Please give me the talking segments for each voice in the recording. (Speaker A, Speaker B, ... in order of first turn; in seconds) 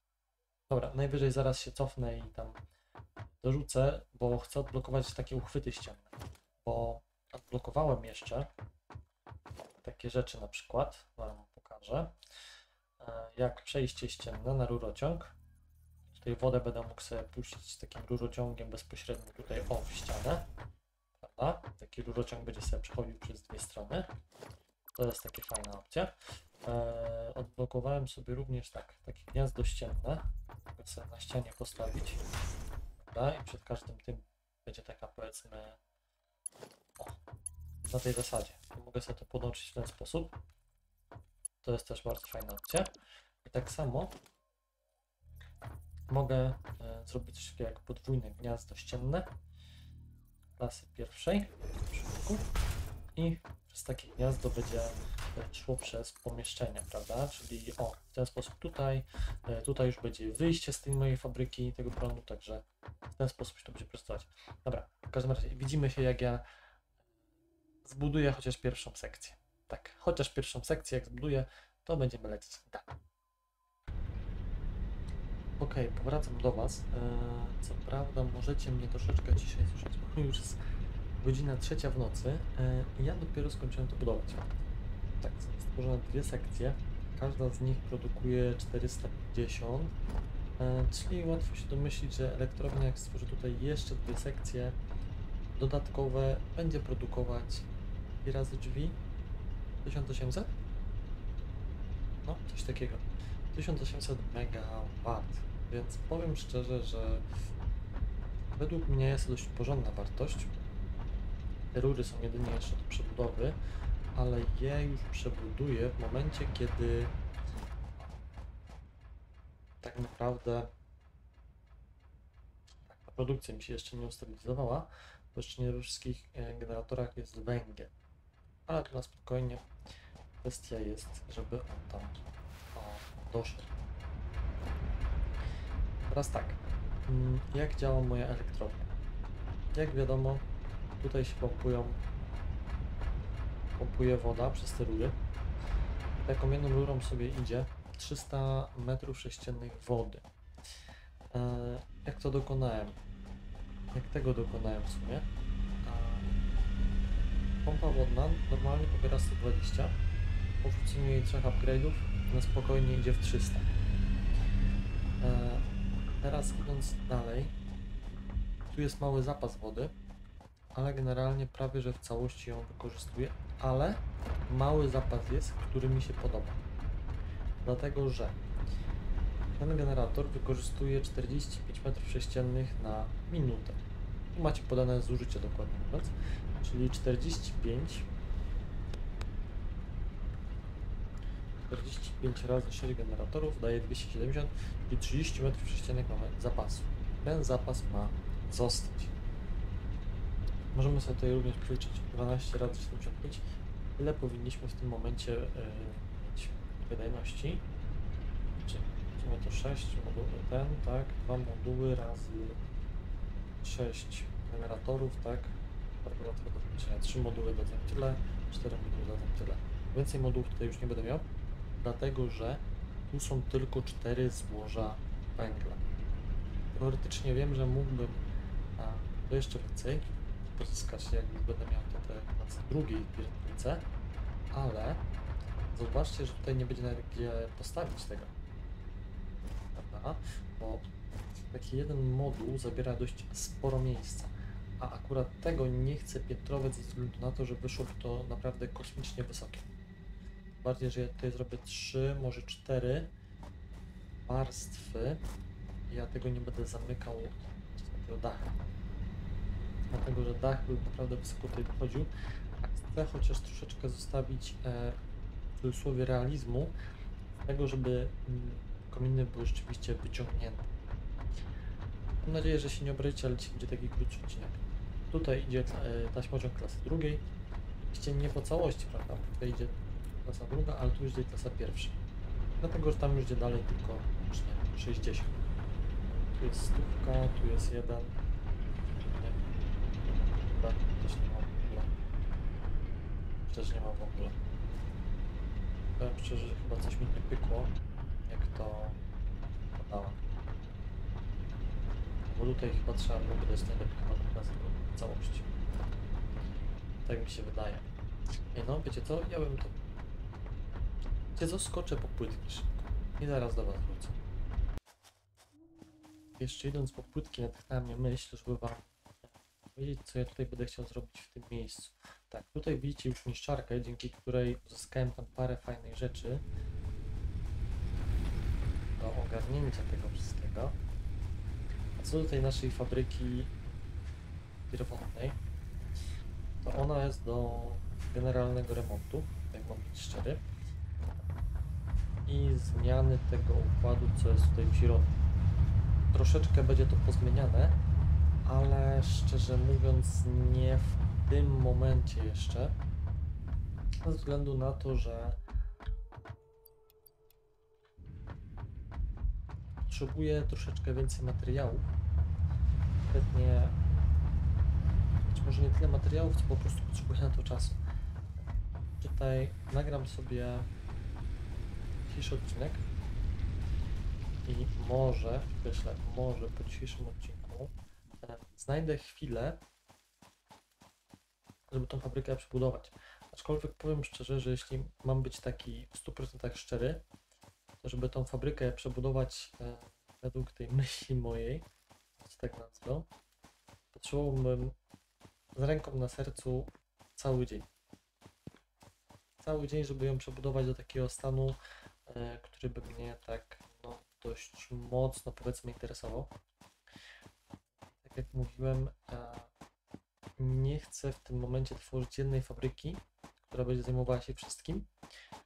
Speaker A: 0.7-2.6, 3.4-6.1, 6.6-8.5, 9.8-12.1, 13.0-15.3, 16.1-20.5, 21.2-24.1, 25.0-26.1, 26.7-32.2, 33.0-35.8, 37.9-40.3, 41.6-42.9, 43.5-44.1, 46.1-49.3, 50.6-52.5, 53.2-66.5, 67.8-72.9, 75.6-80.6, 81.2-84.7, 85.2-89.9, 90.6-94.8, 95.5-97.7, 98.2-99.0, 99.8-100.5, 102.2-107.2, 108.5-110.5, 111.7-113.6, 114.2-117.1, 119.8-120.7, 122.9-127.9, 128.7-129.7, 130.4-132.2, 132.8-133.7, 136.1-138.9, 139.7-140.4, 141.0-142.0, 143.8-145.2, 146.2-150.2, 151.3-153.0, 153.9-155.3, 155.8-156.3, 157.6-160.0, 160.6-163.7, 165.2-165.7, 166.2-167.5, 168.7-169.9, 170.8-176.6, 177.6-178.4, 179.6-183.8, 184.3-188.1, 191.7-199.2, 200.7-207.7, 208.6-212.6, 213.6-225.9, 226.8-228.2, 228.8-233.8, 234.5-235.0, 235.7-238.3, 239.8-240.9, 241.5-249.7, 250.6-253.1, 254.3-255.2, 255.9-258.6, 259.9-265.0, 265.6-266.7, 267.4-270.7, 272.2-274.6, 275.1-277.2, 277.9-282.0, 282.6-285.4, 286.1-288.1, 289.0-289.4, 290.1-291.9, 293.5-294.4, 296.0-297.7, 298.3-299.0, 299.8-300.2, 302.2-305.5, 307.1-307.9, 308.5-309.8, 311.4-314.2, 316.4-318.9, 319.8-326.4, 329.0-330.8, 332.0-333.6, 334.7-335.4, 336.6-340.5, 342.3-345.2, 346.1-347.8, 348.5-352.8, 354.0-355.4, 359.9-361.9, 363.1-363.8, 365.3-367.8, 369.0-370.7, 372.1-372.9, 374.4-379.6, 381.7-387.0, 387.8-391.7, 392.2-393.1, 393.9-394.7, 395.6-397.7, 399.4-406.3, 408.0-409.5, 410.4-414.9